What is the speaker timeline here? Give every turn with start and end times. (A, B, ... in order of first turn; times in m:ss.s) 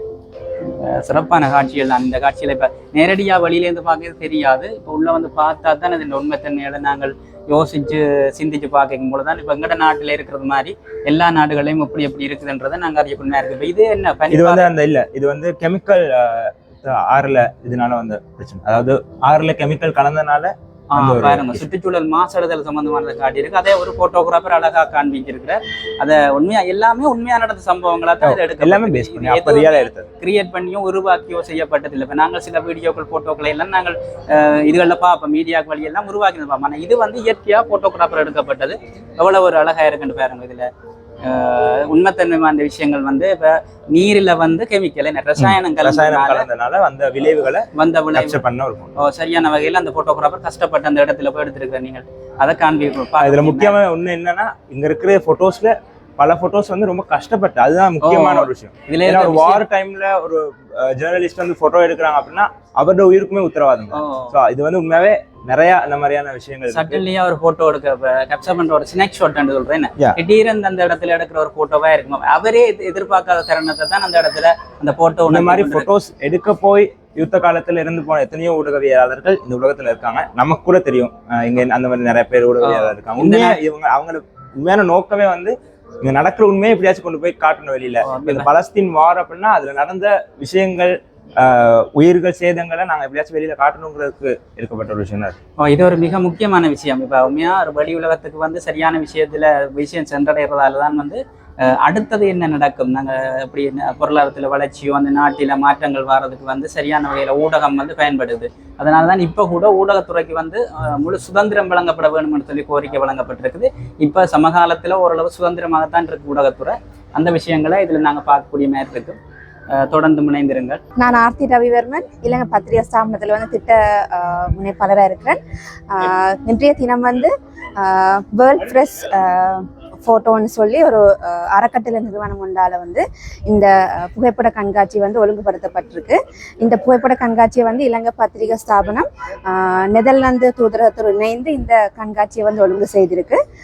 0:00.6-0:14.7 A
0:14.3-0:21.6 B
0:20.9-0:40.7 A
0:28.2-0:30.1 B
0:41.2-0:46.5 A
0:45.4-0:49.1 B
0:47.7-0:48.4 A
0:49.0-0:53.8 A
0:53.2-1:07.0 B
0:58.0-0:59.6 A
1:03.9-1:04.3 A
1:06.7-1:15.9 A
1:15.2-1:35.4 B
1:22.6-1:23.6 A
1:28.0-1:28.5 A
1:35.6-1:59.2 A
1:59.7-2:00.8 A
2:01.0-2:05.4 C
2:05.9-2:23.4 C